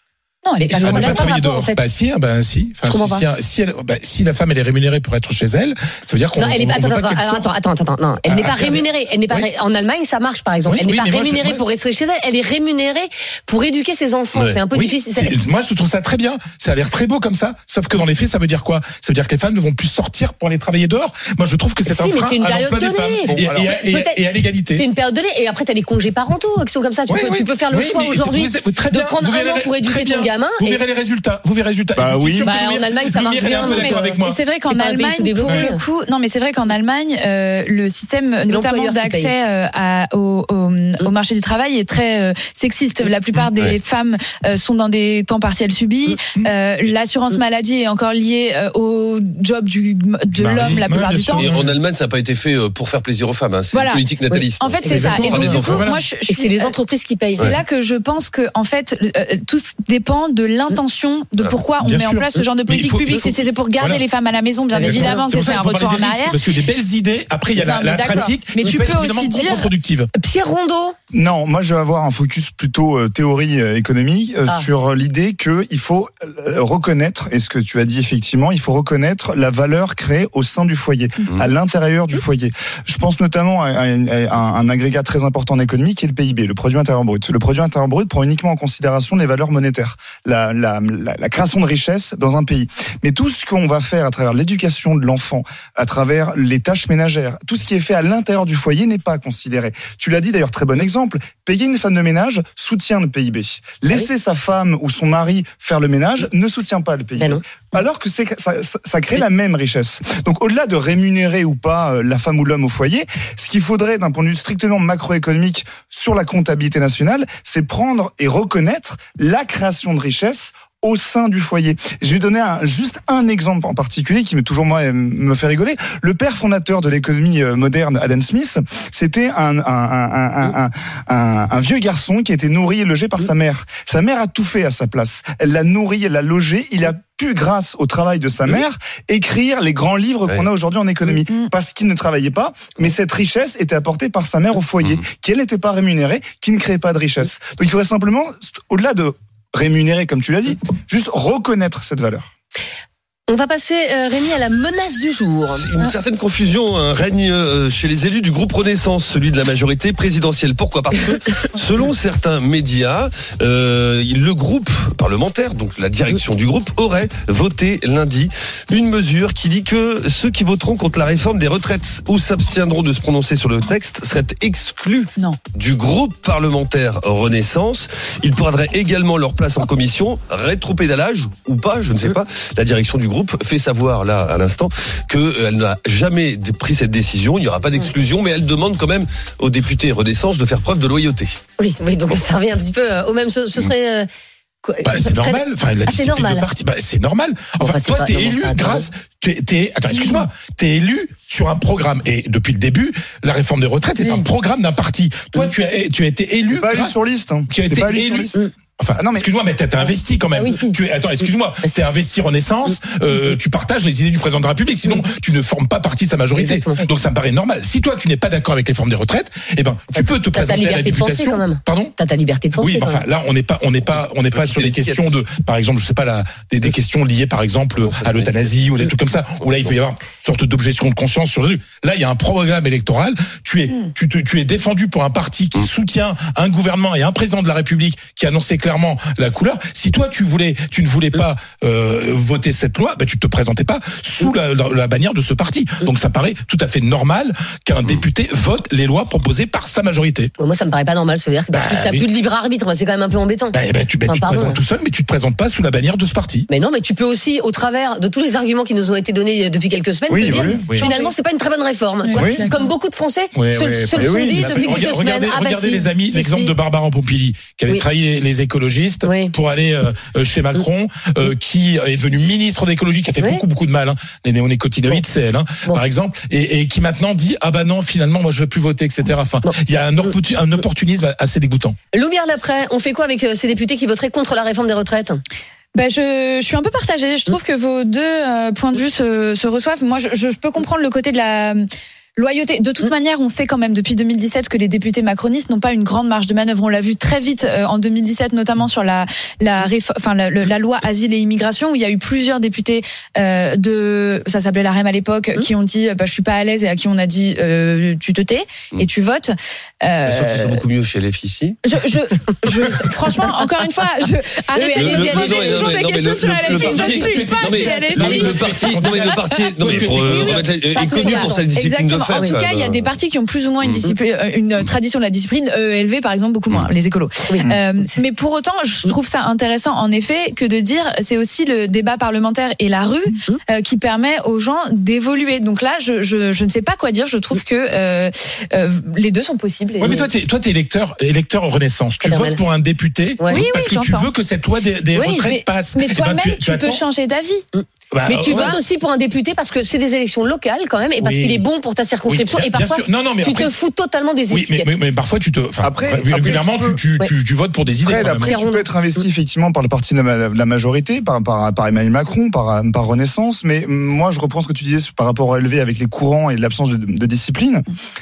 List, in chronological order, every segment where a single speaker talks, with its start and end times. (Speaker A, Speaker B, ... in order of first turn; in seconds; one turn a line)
Speaker A: 0.4-1.3
Speaker B: 0.7-1.8
Speaker C: 0.8-7.5
Speaker B: 2.9-3.2
Speaker B: 6.4-15.4
Speaker C: 8.2-9.5
Speaker C: 10.7-11.6
Speaker C: 14.3-24.8
Speaker B: 21.9-30.8
Speaker D: 23.3-23.7
Speaker C: 27.1-34.4
Speaker D: 31.9-32.5
Speaker B: 32.4-35.8
Speaker A: 33.7-51.5
Speaker B: 38.4-39.3
Speaker C: 50.3-51.7
Speaker E: 50.6-55.9
Speaker A: 53.7-56.7
Speaker C: 54.8-56.0
Speaker B: 55.0-55.4
Speaker B: 56.3-57.6
Speaker A: 57.4-66.4
Speaker C: 61.8-64.0
Speaker B: 64.7-65.2
Speaker C: 64.8-70.1
Speaker A: 67.5-69.7
Speaker B: 68.1-68.7
Speaker B: 70.2-71.0
Speaker D: 71.1-152.3
Speaker B: 153.3-155.7
Speaker E: 155.5-191.3
Speaker B: 191.6-194.1
Speaker B: 194.6-196.5
Speaker C: 194.8-207.0
Speaker B: 197.6-198.9
Speaker A: 199.9-200.2
Speaker D: 206.5-208.3
Speaker C: 207.5-221.9
Speaker D: 209.0-209.3
Speaker B: 209.8-211.7
Speaker B: 216.3-216.9
Speaker B: 219.9-223.0
Speaker C: 222.6-250.3
Speaker E: 224.3-225.2
Speaker E: 227.8-228.6
Speaker E: 229.5-229.7
Speaker B: 250.4-254.6
Speaker C: 251.5-252.1
Speaker C: 253.5-256.5
Speaker B: 256.5-266.5
Speaker D: 260.1-260.6
Speaker A: 260.8-261.1
Speaker A: 262.0-262.6
Speaker D: 262.1-262.5
Speaker C: 263.3-281.8
Speaker D: 264.0-264.6
Speaker B: 269.0-269.3
Speaker B: 273.2-273.4
Speaker B: 279.4-280.2
Speaker B: 281.9-285.2
Speaker A: 285.7-291.6
Speaker A: 292.2-310.6
Speaker E: 310.1-311.6
Speaker A: 311.6-318.7
Speaker B: 314.6-315.8
Speaker E: 314.8-322.9
Speaker B: 316.4-317.1
Speaker C: 316.8-320.5
Speaker B: 317.9-318.4
Speaker A: 319.7-340.1
Speaker B: 320.6-321.5
Speaker B: 322.1-322.4
Speaker E: 323.6-323.9
Speaker B: 327.3-327.9
Speaker B: 339.8-340.1
Speaker C: 339.8-346.8
Speaker B: 342.0-342.4
Speaker B: 343.2-343.4
Speaker A: 343.3-344.1
Speaker B: 344.9-345.3
Speaker A: 345.2-347.4
Speaker B: 347.5-354.8
Speaker C: 347.9-348.6
Speaker A: 348.3-348.6
Speaker C: 351.0-351.4
Speaker C: 352.1-353.5
Speaker C: 354.3-358.4
Speaker D: 355.6-356.8
Speaker D: 357.8-367.7
Speaker B: 357.9-359.1